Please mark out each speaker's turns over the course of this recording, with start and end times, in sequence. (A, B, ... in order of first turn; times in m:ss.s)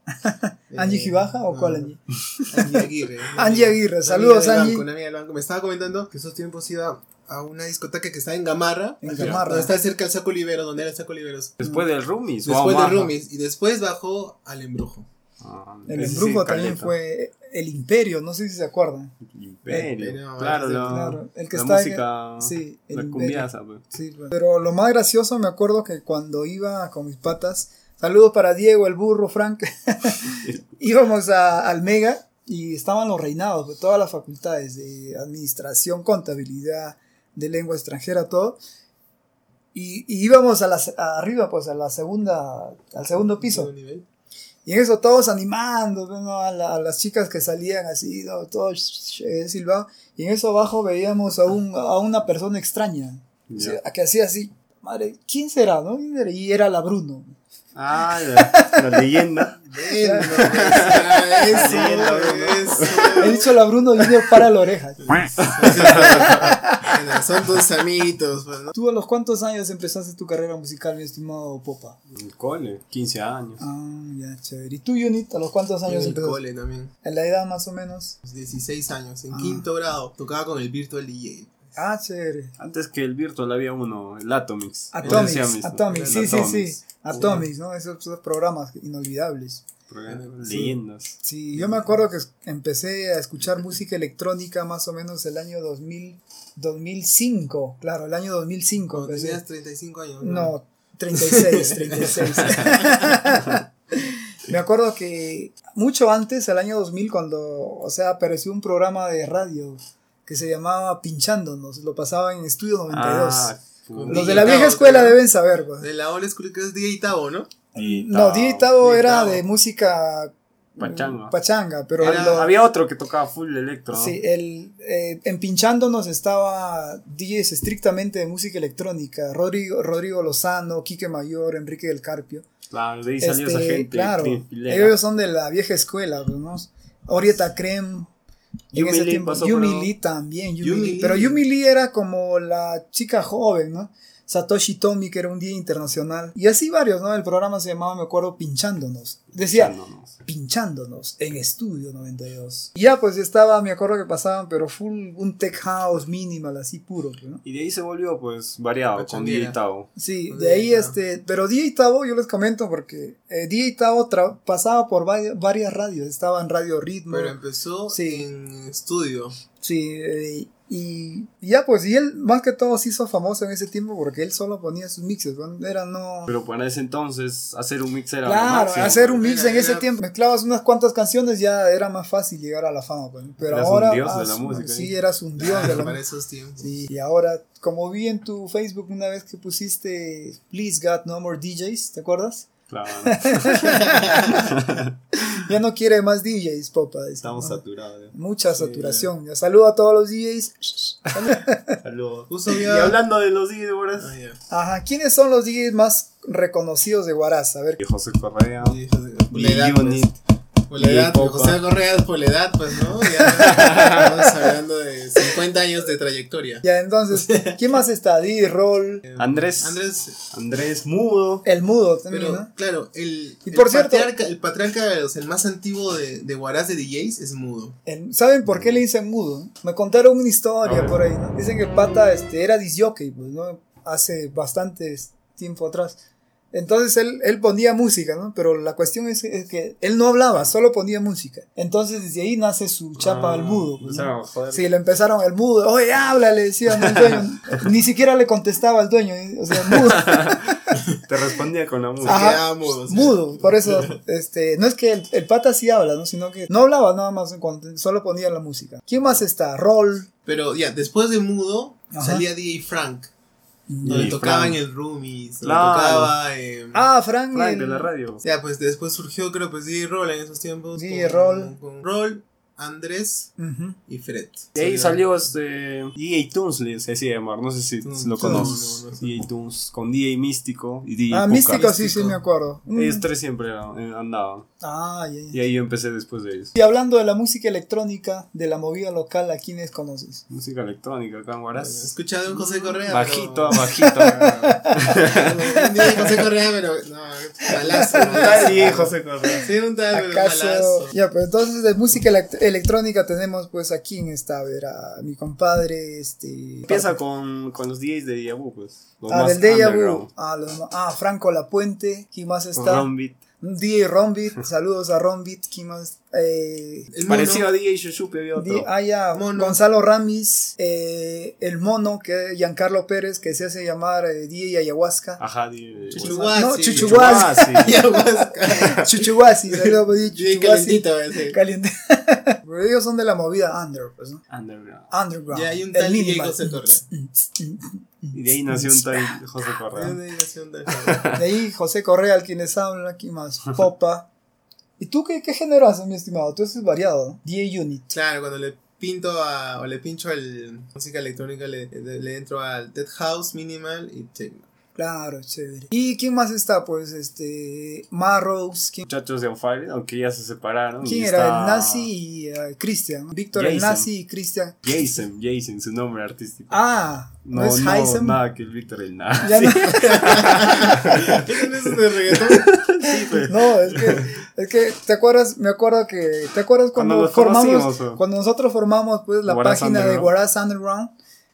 0:00.2-0:02.8 A
0:00.7-0:01.9 B
0:02.5-0:11.6 B
0:03.4-0:04.9 A
0:09.0-0:09.7 A
0:09.1-0:09.4 C
0:11.6-0:13.1 C
0:12.4-0:15.1 B
0:15.4-0:17.0 C
0:15.9-0:19.1 A
0:19.2-0:23.8 C
0:19.9-0:21.2 B
0:20.9-0:38.6 A
0:39.7-0:43.7 A
0:43.4-0:44.0 B
0:44.7-0:57.4 A
0:53.5-0:53.8 C
0:57.8-0:59.6 C
0:58.2-0:59.0 A
0:59.7-1:03.5 B
0:59.8-1:01.0 A
1:00.3-1:03.4 C
1:01.6-1:01.9 A
1:03.2-1:06.9 A
1:05.1-1:08.7 B
1:05.4-1:06.5 C
1:08.7-1:12.0 A
1:12.1-1:13.6 C
1:13.6-1:16.4 A
1:15.9-1:16.9 B
1:17.0-1:18.2 A
1:18.2-1:21.7 B
1:19.3-1:19.7 A
1:21.8-1:22.5 A
1:22.6-1:27.4 C
1:24.9-1:29.6 A
1:25.0-1:26.6 B
1:27.2-1:27.5 B
1:29.9-1:31.2 C
1:30.1-1:30.8 B
1:31.2-1:39.4 A
1:38.9-1:40.5 B
1:40.2-1:53.5 A
1:41.1-1:43.2 B
1:52.9-1:54.6 C
1:54.0-1:55.2 B
1:54.1-1:55.9 A
1:55.8-1:57.5 B
1:57.7-2:02.5 A
1:57.8-1:58.7 C
1:58.8-1:59.4 B
2:00.8-2:01.4 C
2:02.0-2:02.5 B
2:02.0-2:04.2 C
2:03.9-2:12.4 A
2:12.7-2:15.0 C
2:13.2-2:18.1 A
2:18.7-2:37.4 A
2:18.7-2:19.9 C
2:20.6-2:21.4 B
2:29.4-2:30.1 C
2:37.4-2:39.9 C
2:38.9-2:39.6 B
2:40.0-2:47.4 A
2:40.3-2:41.0 B
2:47.1-2:49.4 B
2:47.9-2:48.2 A
2:49.6-2:56.3 A
2:56.3-2:59.3 C
2:58.2-3:06.0 A
2:59.2-2:59.9 B
3:03.5-3:04.9 C
3:05.4-3:06.7 B
3:06.6-3:12.5 A
3:12.7-3:14.9 C
3:13.0-3:14.6 A
3:13.6-3:14.4 B
3:15.1-3:21.8 A
3:17.2-3:18.1 C
3:18.6-3:19.1 B
3:21.8-3:24.1 C
3:22.3-3:23.0 B
3:24.0-3:24.4 B
3:24.5-3:27.8 A
3:27.8-3:28.8 C
3:28.6-3:30.1 B
3:29.3-3:30.2 C
3:30.7-3:36.6 B
3:30.8-3:31.6 C
3:33.3-3:34.2 C
3:36.6-3:39.0 A
3:37.2-3:37.6 B
3:39.0-3:40.2 B
3:39.2-3:41.5 C
3:41.4-3:42.5 A
3:42.1-3:47.8 B
3:43.5-3:44.1 A
3:47.9-3:56.0 A
3:50.6-3:51.0 C
3:56.5-4:10.7 A
4:03.0-4:04.7 C
4:06.8-4:07.2 C
4:09.7-4:12.4 C
4:12.0-4:14.0 B
4:12.1-4:20.1 A
4:20.3-4:23.1 B
4:21.9-4:22.2 A
4:23.7-4:24.2 A
4:23.8-4:24.6 C
4:23.8-4:26.8 B
4:25.4-4:26.1 C
4:26.7-4:27.9 A
4:27.3-4:28.2 C
4:28.2-4:33.3 B
4:30.8-4:31.5 A
4:33.4-4:33.8 A
4:33.9-4:35.1 B
4:34.6-4:41.7 C
4:37.8-4:39.2 B
4:38.2-4:38.6 A
4:41.1-4:43.1 A
4:41.5-4:42.2 B
4:42.7-4:44.5 C
4:44.6-4:45.4 A
4:45.3-4:46.5 C
4:46.5-4:50.2 A
4:50.3-4:51.9 C
4:51.6-4:54.0 B
4:52.4-4:52.8 A
4:52.9-4:55.4 C
4:53.5-4:55.0 A
4:54.9-5:01.0 B
4:57.6-5:07.0 A
4:57.9-4:59.5 C
5:06.7-5:10.1 C
5:09.1-5:16.9 A
5:12.6-5:13.2 C
5:16.9-5:17.5 B
5:17.0-5:18.7 C
5:18.4-5:25.2 A
5:19.1-5:19.6 B
5:25.2-5:27.9 C
5:25.9-5:31.4 B
5:26.0-5:27.8 A
5:28.5-5:34.2 A
5:34.3-5:34.9 C
5:34.9-5:39.2 A
5:35.3-5:36.8 B
5:38.1-5:40.0 C
5:39.7-5:41.1 B
5:40.9-5:41.2 C
5:41.1-5:44.1 A
5:44.8-5:47.9 A
5:47.9-5:54.5 B
5:54.8-5:58.9 A
5:58.9-6:01.9 C
6:00.8-6:04.7 A
6:03.3-6:03.9 C
6:04.6-6:06.6 C
6:06.5-6:08.2 A
6:07.2-6:14.2 C
6:09.2-6:10.4 A
6:09.9-6:12.6 B
6:12.9-6:20.9 A
6:16.8-6:18.0 C
6:19.3-6:20.1 C